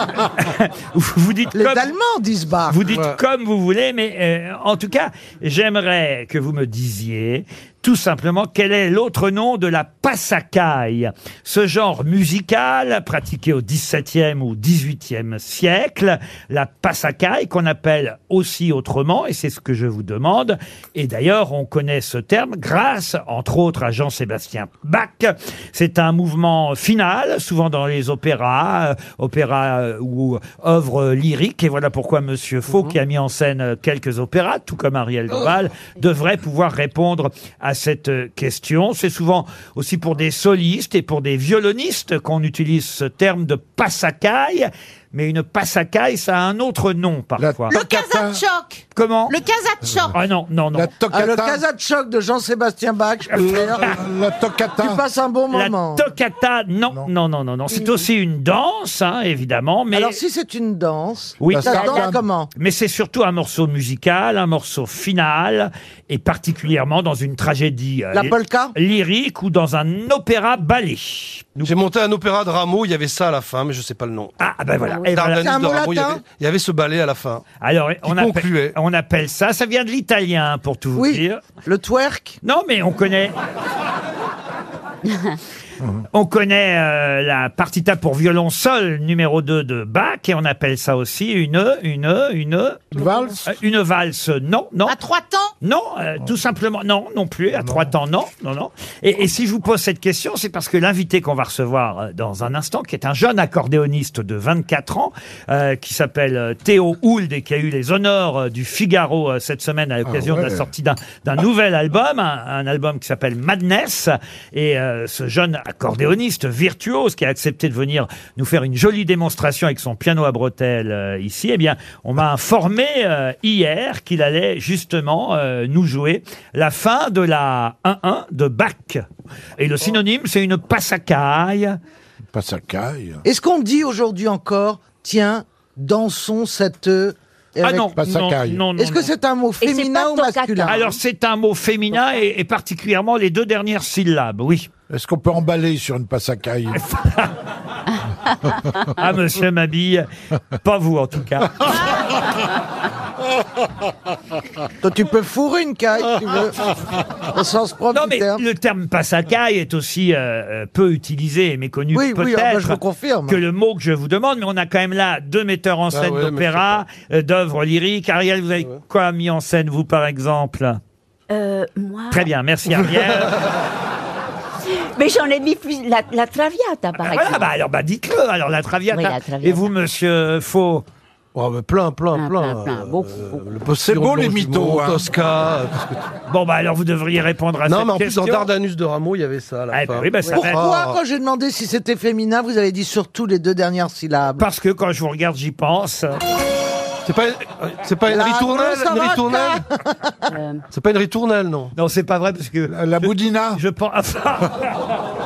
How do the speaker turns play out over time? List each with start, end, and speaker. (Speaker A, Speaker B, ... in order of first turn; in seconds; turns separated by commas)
Speaker A: 0.3-1.9, Speaker B: 1.5-2.8, Speaker A: 2.7-47.7, Speaker C: 47.4-48.4, Speaker D: 47.7-50.1, Speaker A: 49.0-49.3, Speaker A: 50.1-50.9, Speaker C: 50.7-51.6, Speaker B: 51.1-53.9, Speaker A: 53.3-53.9, Speaker C: 53.3-55.0, Speaker B: 54.8-56.0, Speaker A: 55.5-60.2, Speaker B: 59.9-62.5, Speaker A: 61.4-71.7, Speaker C: 61.5-62.2, Speaker B: 68.1-68.8, Speaker E: 71.6-74.3, Speaker A: 74.4-75.5, Speaker E: 75.1-77.4, Speaker B: 75.3-76.2, Speaker A: 77.6-81.4, Speaker E: 78.0-78.8, Speaker B: 81.0-82.4, Speaker A: 82.4-83.3, Speaker F: 85.1-85.3, Speaker C: 85.8-86.0, Speaker A: 86.1-92.9, Speaker C: 92.9-93.4, Speaker A: 93.5-95.0, Speaker D: 94.9-95.5, Speaker A: 95.6-129.0, Speaker C: 97.5-97.9, Speaker C: 110.0-110.7, Speaker A: 129.6-131.8, Speaker C: 132.3-133.2, Speaker B: 133.2-137.9, Speaker A: 137.6-139.1, Speaker C: 137.9-138.6, Speaker B: 138.8-140.9, Speaker F: 139.6-140.8, Speaker A: 140.7-144.7, Speaker C: 144.9-146.8, Speaker A: 146.8-147.3, Speaker A: 148.9-150.1, Speaker A: 150.6-151.7, Speaker D: 151.7-152.0, Speaker B: 154.8-156.7, Speaker B: 157.3-158.4, Speaker A: 157.9-170.8, Speaker B: 161.9-163.4, Speaker E: 165.9-166.8, Speaker F: 171.3-172.3, Speaker A: 172.1-173.4, Speaker F: 174.7-177.5, Speaker A: 177.0-180.8, Speaker F: 178.9-179.7, Speaker E: 181.3-186.0, Speaker F: 182.1-183.5, Speaker C: 183.7-185.1, Speaker A: 186.3-188.5, Speaker E: 187.7-191.0, Speaker A: 189.7-190.7, Speaker B: 190.3-194.4, Speaker A: 194.4-196.2, Speaker E: 197.0-199.6, Speaker B: 198.1-200.0, Speaker F: 200.3-200.6, Speaker E: 200.7-201.7, Speaker A: 201.8-204.8, Speaker C: 202.7-203.6